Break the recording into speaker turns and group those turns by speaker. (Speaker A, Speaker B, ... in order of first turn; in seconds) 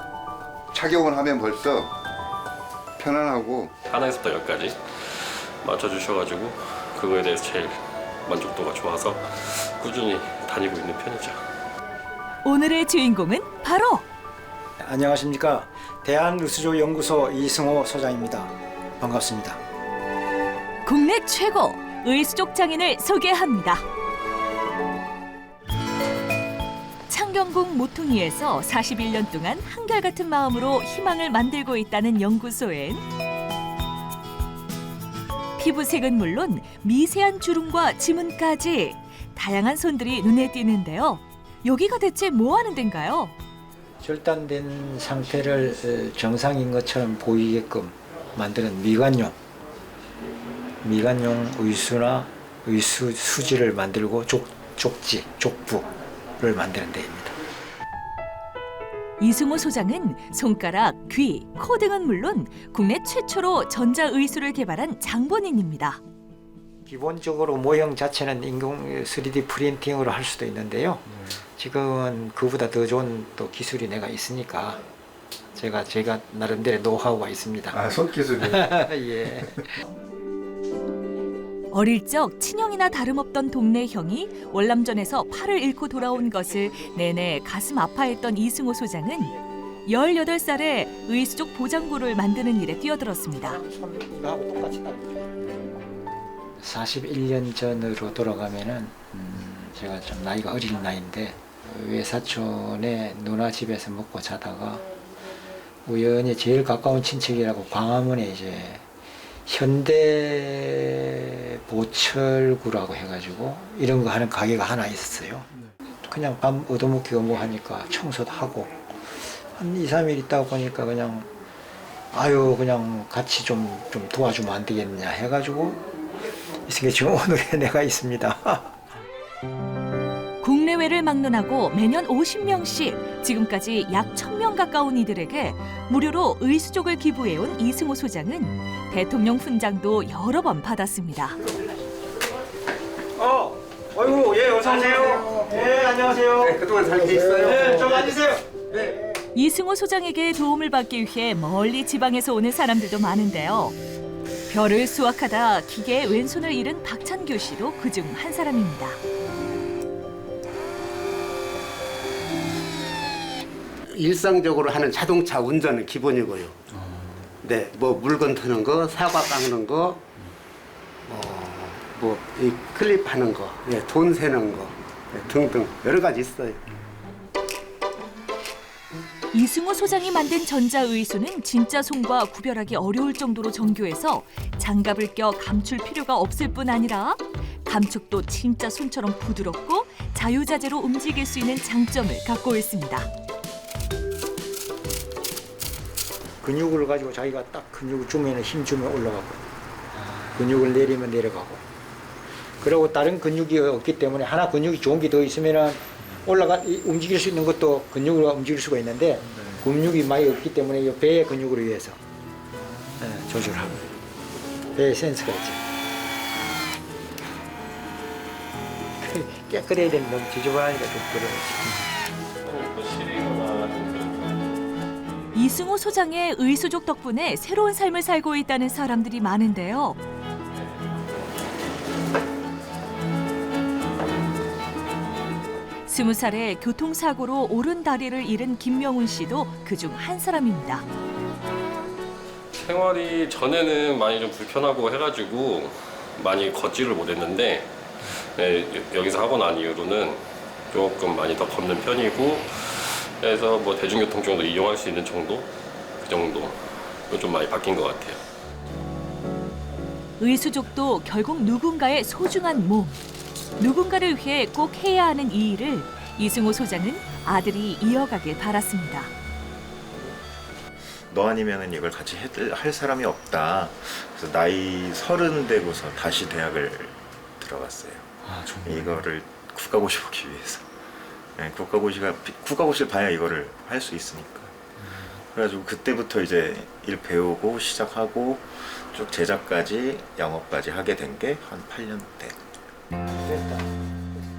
Speaker A: 0.7-1.9, 3.0-3.7
Speaker B: 3.9-11.5, 222.4-224.3, 242.5-258.2
Speaker C: 12.4-14.0, 20.8-23.8, 27.1-33.0, 35.6-43.3, 59.2-66.0, 81.7-89.3, 89.9-93.6, 130.4-141.4, 149.3-153.8, 154.5-159.0, 179.3-193.1, 225.3-230.0, 235.9-240.8, 260.2-263.0, 263.6-269.1
Speaker D: 14.8-19.6, 44.0-49.4, 50.8-55.9, 56.4-57.3, 66.8-74.8, 75.5-79.7, 93.4-95.2, 96.6-104.8, 105.8-108.8, 109.5-115.5, 116.0-121.3, 122.1-125.8, 126.7-128.8, 143.2-148.8, 196.4-199.4, 199.9-201.6, 202.6-212.0, 213.0-213.9, 214.7-215.6, 219.0-221.9, 293.2-293.6
Speaker E: 144.8-145.6, 146.3-148.9, 163.9-166.6, 167.4-170.0, 171.1-176.6
Speaker F: 271.1-280.7, 281.4-284.5, 285.3-292.4